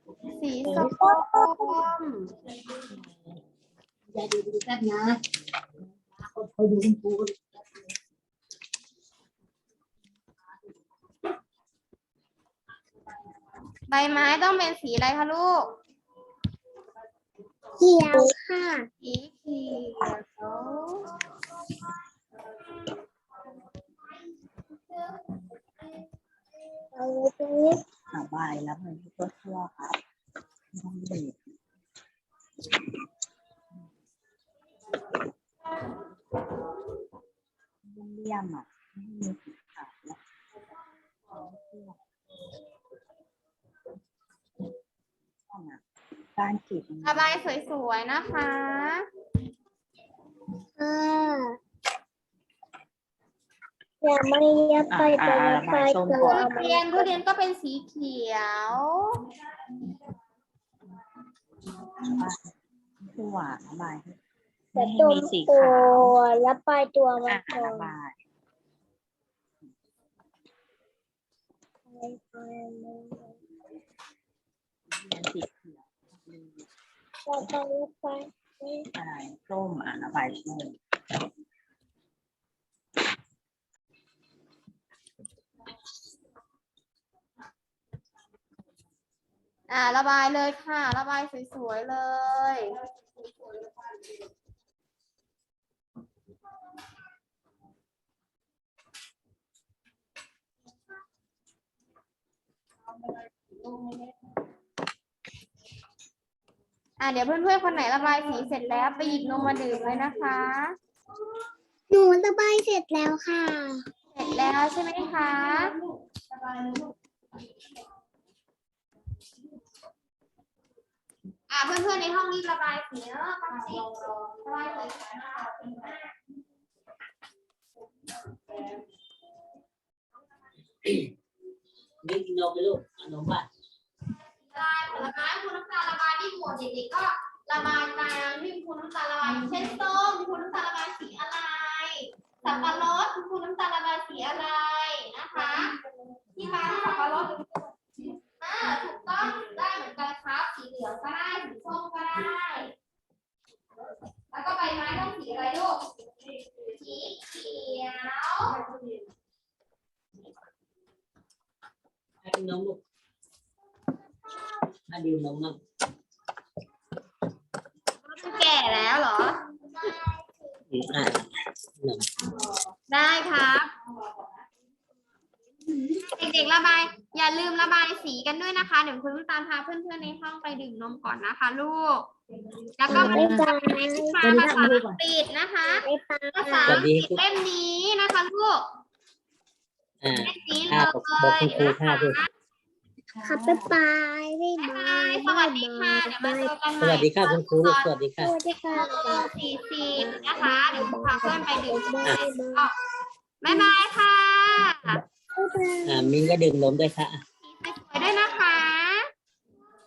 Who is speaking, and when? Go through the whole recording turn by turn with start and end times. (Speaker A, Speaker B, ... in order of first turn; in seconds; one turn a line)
Speaker A: 0.3-2.3
Speaker B: 0.6-1.0
Speaker B: 2.9-3.4
Speaker B: 4.1-5.2
Speaker B: 6.0-7.8
Speaker A: 13.9-15.6
Speaker C: 17.8-18.9
Speaker A: 19.0-21.1
Speaker C: 26.9-27.8
Speaker D: 28.1-30.0
Speaker D: 30.7-31.3
Speaker D: 37.9-40.2
Speaker D: 41.3-42.0
Speaker D: 45.5-45.8
Speaker D: 46.3-47.4
Speaker A: 47.0-49.0
Speaker C: 50.8-51.6
Speaker C: 54.0-57.1
Speaker D: 54.9-56.6
Speaker A: 56.2-59.1
Speaker D: 63.0-64.2
Speaker D: 64.7-66.1
Speaker C: 64.8-67.9
Speaker D: 67.2-68.1
Speaker C: 71.9-73.4
Speaker D: 74.9-76.6
Speaker C: 77.2-78.8
Speaker D: 79.0-80.8
Speaker A: 89.7-92.8
Speaker A: 107.0-110.7
Speaker C: 111.9-113.8
Speaker A: 114.1-115.7
Speaker A: 121.5-126.1
Speaker B: 132.0-133.4
Speaker A: 134.1-145.7
Speaker A: 146.3-147.7
Speaker A: 148.4-152.7
Speaker A: 154.3-155.8
Speaker A: 156.5-158.6
Speaker B: 162.2-162.8
Speaker B: 164.9-165.5
Speaker A: 168.0-169.4
Speaker C: 169.8-170.5
Speaker B: 170.7-171.1
Speaker A: 172.9-173.7
Speaker A: 175.9-182.1
Speaker A: 182.8-185.8
Speaker B: 182.9-183.4
Speaker C: 182.9-184.2
Speaker B: 184.2-185.0
Speaker C: 185.8-186.8
Speaker A: 186.3-188.6
Speaker B: 186.8-187.2
Speaker B: 190.0-192.2
Speaker A: 190.2-192.3
Speaker B: 193.2-193.7
Speaker C: 193.2-196.5
Speaker A: 194.6-197.9
Speaker B: 196.8-198.2
Speaker C: 198.2-199.3
Speaker A: 198.7-202.7
Speaker C: 199.9-202.7
Speaker A: 203.4-205.0
Speaker C: 205.3-206.1
Speaker B: 205.9-207.2
Speaker A: 207.4-209.1